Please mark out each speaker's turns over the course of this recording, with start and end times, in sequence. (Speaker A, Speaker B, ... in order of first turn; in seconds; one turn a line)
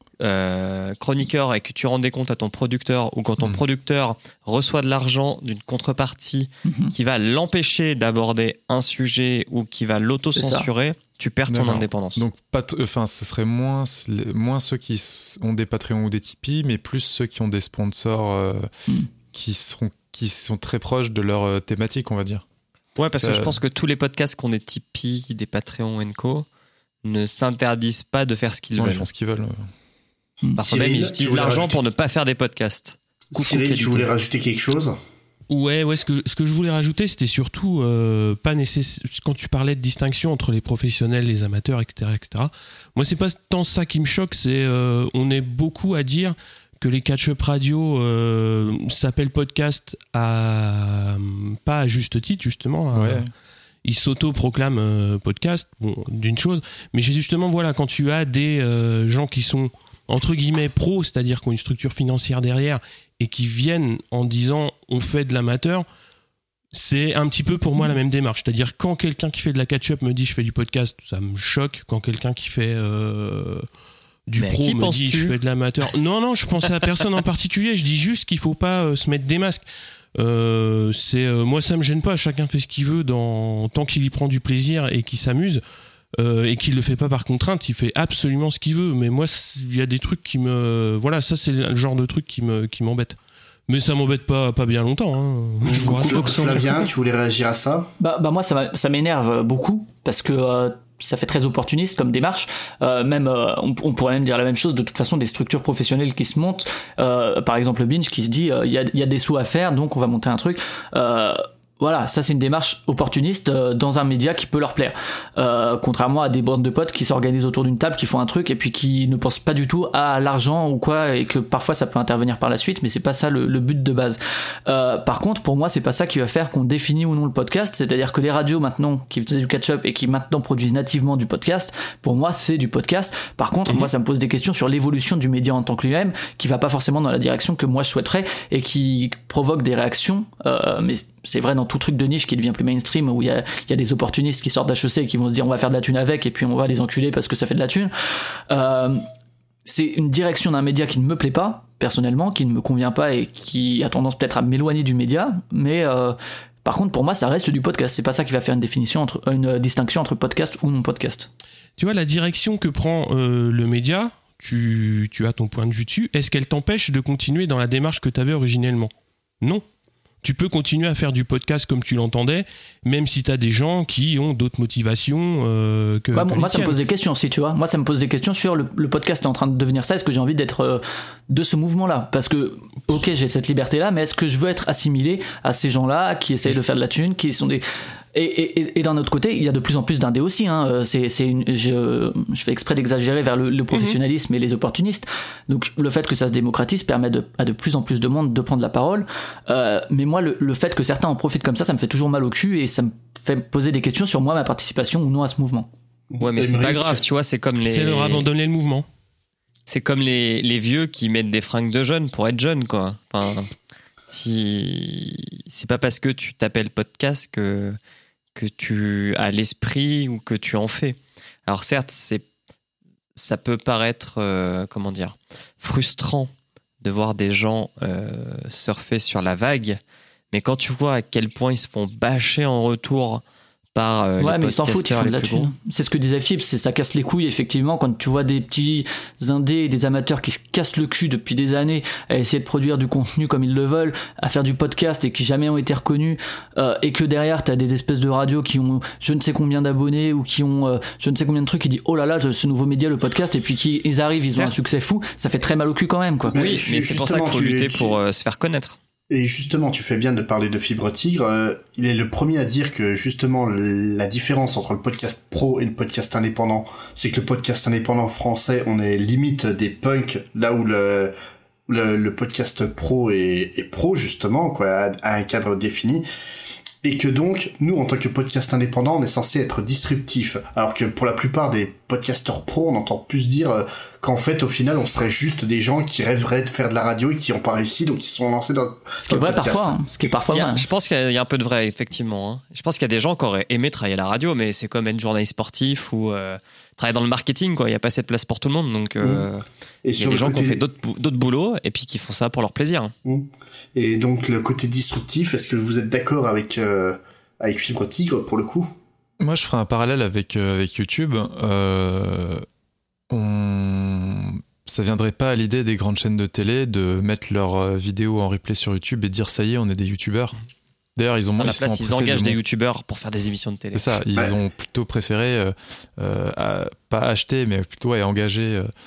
Speaker A: 0.2-12.2
Speaker B: 6.7-6.9
Speaker B: 10.4-10.7
Speaker C: 11.5-18.7
Speaker C: 19.3-22.4
Speaker A: 23.0-26.5
Speaker C: 23.1-23.6
Speaker A: 27.0-29.1
Speaker C: 28.8-29.7
Speaker D: 30.6-31.8
Speaker A: 30.6-34.1
Speaker D: 33.3-35.0
Speaker E: 35.5-53.3
Speaker C: 52.9-53.3
Speaker E: 53.8-65.9
Speaker E: 66.7-73.7
Speaker E: 74.3-79.6
Speaker A: 74.4-75.4
Speaker E: 80.2-85.6
Speaker E: 86.2-93.2
Speaker E: 93.7-96.8
Speaker D: 95.7-97.9
Speaker A: 95.8-96.6
Speaker B: 98.0-147.9
Speaker B: 148.5-149.1
Speaker B: 149.7-161.3
Speaker E: 161.8-169.6
Speaker E: 170.2-176.8
Speaker B: 176.1-187.6
Speaker B: 188.1-205.7
Speaker E: 193.7-194.0
Speaker D: 206.1-207.0
Speaker A: 206.2-208.3
Speaker E: 207.6-208.9
Speaker A: 209.7-213.5
Speaker A: 214.1-217.8
Speaker A: 218.3-222.2
Speaker A: 223.2-229.8
Speaker A: 230.3-233.2
Speaker A: 233.8-235.5
Speaker B: 234.2-256.4
Speaker D: 256.3-258.0
Speaker A: 256.4-258.8
Speaker D: 259.1-271.1
Speaker D: 271.7-276.0
Speaker D: 276.8-289.9
Speaker B: 289.0-290.7
Speaker A: 290.3-299.4
Speaker D: 299.0-299.3
Speaker D: 299.8-300.6
Speaker A: 300.0-302.9
Speaker D: 303.1-308.8
Speaker C: 309.2-312.5
Speaker C: 313.1-320.4
Speaker C: 321.0-322.4
Speaker A: 321.4-323.9
Speaker C: 323.7-328.7